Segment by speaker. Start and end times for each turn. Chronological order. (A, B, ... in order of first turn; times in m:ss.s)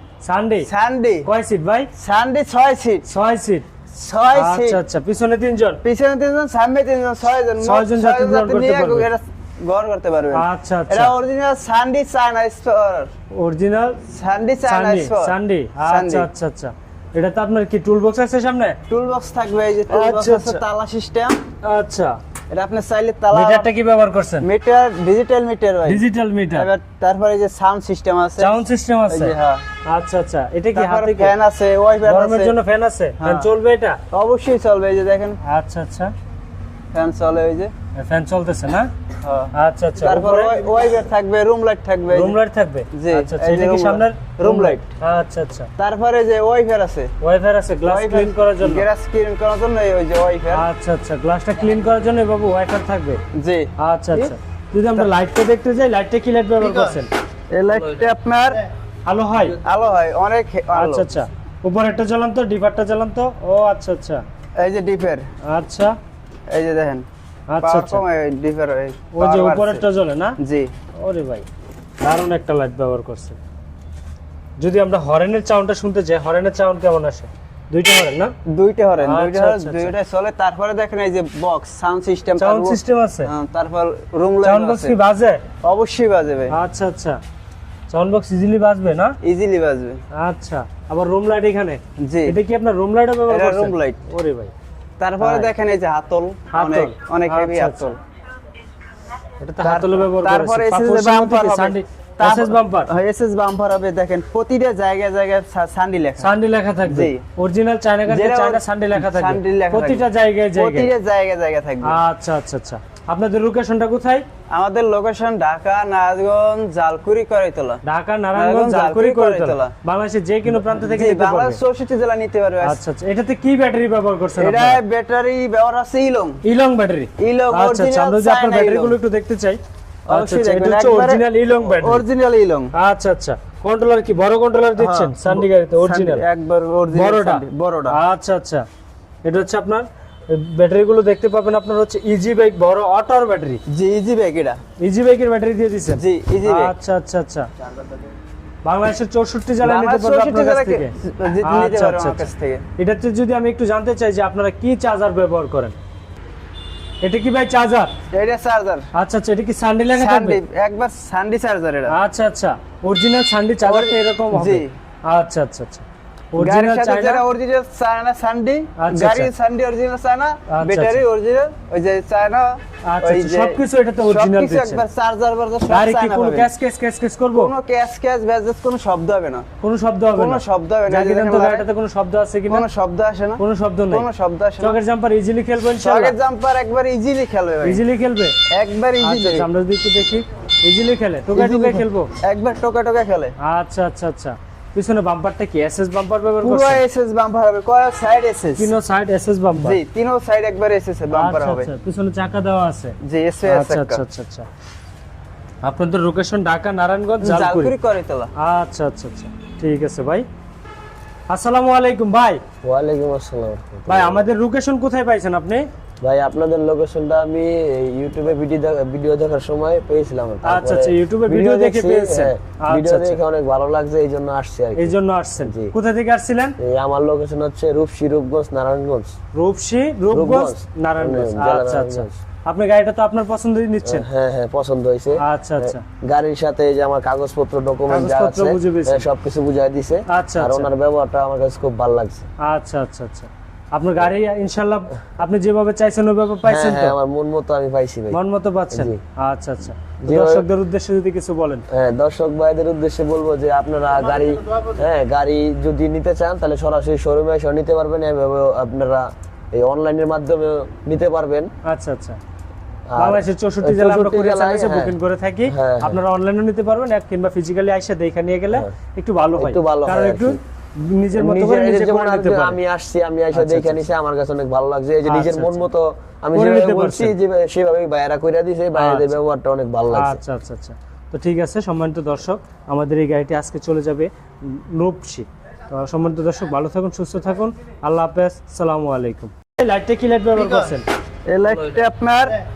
0:00.2-0:00.7 A
0:00.6-0:01.3 B
0:01.3-0:01.9 A
0:02.0-0:03.1 B
0:03.1-0:03.7 A
0:03.9-0:04.8 B
0:04.3-0:05.8 A
0:05.8-0:13.1 B
0:07.6-0:09.1 A
0:10.3-0:11.1 A
0:13.3-0:14.0 A
0:14.0-0:16.3 B
0:14.6-0:18.8 A
0:18.9-0:21.4 B
0:19.9-0:20.6 A
0:21.6-0:22.2 A
0:22.5-0:23.7 B
0:23.3-0:24.5 A
0:24.4-0:29.6 B
0:25.9-0:26.7 A
0:28.4-0:29.4 A
0:29.9-0:31.3 A
0:30.7-0:32.6 B
0:32.0-0:34.0 A
0:33.2-0:33.5 B
0:34.1-0:35.4 B
0:35.4-0:36.1 A
0:36.9-0:37.7 B
0:38.0-0:38.9 A
0:39.2-0:42.4 B
0:39.5-0:40.6 A
0:42.1-0:45.7 A
0:42.9-0:44.9 B
0:45.8-0:47.1 B
0:47.2-0:48.9 A
0:47.8-0:50.6 B
0:50.5-0:53.2 A
0:53.3-0:54.3 B
0:53.8-0:57.1 A
0:57.5-0:58.6 B
0:59.1-0:59.6 A
0:59.6-1:01.1 B
1:00.7-1:04.2 A
1:04.6-1:05.3 B
1:05.4-1:06.0 A
1:06.5-1:07.1 B
1:07.5-1:08.0 A
1:07.6-1:09.8 B
1:09.1-1:10.4 A
1:10.4-1:10.7 B
1:11.0-1:11.5 A
1:12.0-1:13.4 A
1:14.6-1:18.3 A
1:18.5-1:25.0 B
1:19.0-1:19.9 A
1:22.4-1:23.3 A
1:24.4-1:25.4 A
1:25.6-1:26.6 B
1:26.5-1:27.2 A
1:27.9-1:29.2 A
1:29.2-1:30.0 B
1:30.1-1:34.5 A
1:32.0-1:32.4 B
1:33.3-1:34.0 B
1:35.0-1:38.0 B
1:35.2-1:35.5 A
1:36.5-1:37.9 A
1:39.4-1:42.9 A
1:39.6-1:46.3 B
1:46.2-1:50.9 A
1:46.8-1:47.2 B
1:48.1-1:50.0 B
1:50.6-1:52.0 B
1:51.8-1:54.3 A
1:54.5-1:57.8 B
1:57.8-2:01.6 A
1:58.4-1:59.7 B
2:00.5-2:02.8 B
2:02.6-2:04.8 A
2:04.4-2:06.4 B
2:06.4-2:12.0 A
2:07.2-2:09.0 B
2:10.1-2:12.7 B
2:12.8-2:16.2 A
2:14.8-2:18.0 B
2:16.9-2:18.6 A
2:19.2-2:23.6 A
2:23.7-2:24.6 B
2:24.8-2:27.5 A
2:25.9-2:26.7 B
2:28.6-2:35.8 A
2:29.6-2:32.6 B
2:37.0-2:37.9 A
2:38.1-2:38.9 B
2:38.9-2:40.4 A
2:39.9-2:42.0 B
2:41.9-2:47.2 A
2:43.6-2:44.7 B
2:46.4-2:56.5 B
2:48.8-2:49.3 A
2:50.5-2:51.0 A
2:52.8-2:54.8 A
2:55.7-2:57.5 A
2:57.3-2:59.5 B
2:59.6-3:02.7 A
3:00.1-3:01.7 B
3:02.5-3:04.8 B
3:03.4-3:04.1 A
3:04.6-3:06.2 A
3:05.8-3:07.8 B
3:07.6-3:08.4 A
3:08.5-3:09.5 B
3:09.0-3:12.1 A
3:11.3-3:13.4 B
3:13.4-3:16.8 A
3:16.4-3:18.7 B
3:18.6-3:19.8 A
3:19.6-3:21.7 B
3:21.1-3:24.5 A
3:23.0-3:24.0 B
3:25.6-3:27.7 A
3:27.2-3:28.3 B
3:28.4-3:30.3 A
3:31.3-3:32.4 A
3:32.6-3:34.3 C
3:33.9-3:35.6 A
3:36.0-3:45.7 C
3:40.4-3:43.2 A
3:44.8-3:46.6 A
3:46.6-3:49.2 C
3:49.4-3:54.0 A
3:50.1-3:52.1 C
3:53.8-4:02.3 C
3:55.2-3:55.8 A
3:57.9-3:59.1 A
4:00.1-4:00.7 A
4:02.4-4:07.0 A
4:06.4-4:08.2 C
4:08.1-4:11.7 A
4:08.7-4:09.0 C
4:10.0-4:10.5 C
4:11.7-4:21.5 C
4:21.7-4:22.2 A
4:22.9-4:25.0 C
4:23.0-4:32.6 A
4:25.5-4:26.0 C
4:29.4-4:30.4 C
4:31.1-4:40.2 C
4:33.3-4:33.9 A
4:35.0-4:35.7 A
4:36.3-4:37.2 A
4:38.8-4:39.2 A
4:39.9-4:50.8 A
4:51.3-4:52.4 B